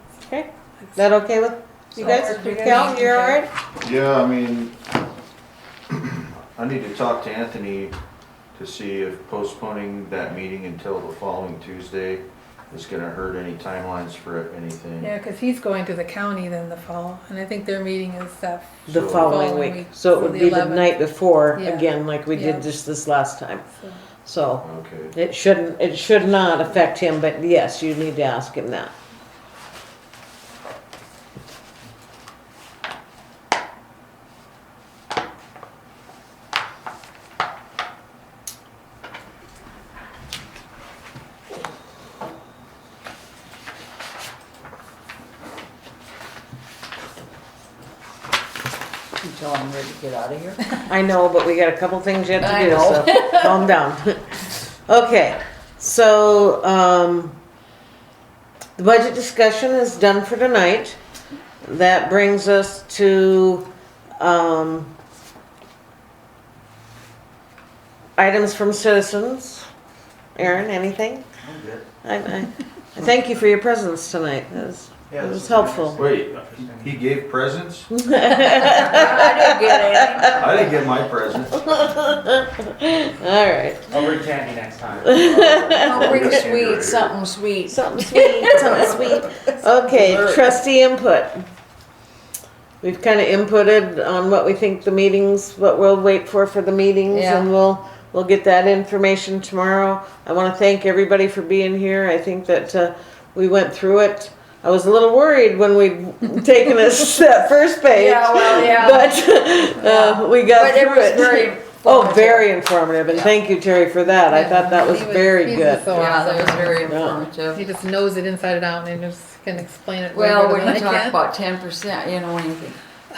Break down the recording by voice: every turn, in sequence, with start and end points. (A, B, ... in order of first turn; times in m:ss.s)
0:00.2-0:03.5 A
0:02.0-0:03.4 B
0:03.8-0:04.7 C
0:05.9-0:07.9 C
0:08.5-0:15.1 C
0:15.0-0:22.7 B
0:18.9-0:19.4 C
0:18.9-0:23.6 A
0:23.6-0:24.0 B
0:24.2-0:28.9 A
0:24.6-0:25.1 C
0:49.2-0:50.8 D
0:50.9-0:54.2 A
0:52.4-0:53.7 D
0:54.9-0:57.4 A
0:58.8-1:01.0 A
1:01.6-1:03.7 A
1:04.2-1:04.9 A
1:08.2-1:09.7 A
1:10.4-1:11.2 A
1:11.4-1:11.8 E
1:12.0-1:16.0 A
1:15.1-1:17.0 E
1:16.0-1:17.9 C
1:17.9-1:20.3 A
1:18.4-1:20.8 D
1:20.3-1:21.7 C
1:21.6-1:24.2 A
1:24.0-1:25.1 E
1:25.0-1:26.4 A
1:25.1-1:27.2 C
1:25.8-1:29.3 D
1:27.7-1:31.4 A
1:29.9-1:30.4 D
1:32.8-1:56.1 A
1:37.1-1:37.5 D
1:47.9-1:49.2 D
1:49.8-1:52.5 D
1:53.1-1:53.3 D
1:54.3-1:56.9 B
1:55.9-1:57.6 D
1:56.8-1:57.2 A
1:57.5-2:01.2 B
2:00.1-2:02.8 D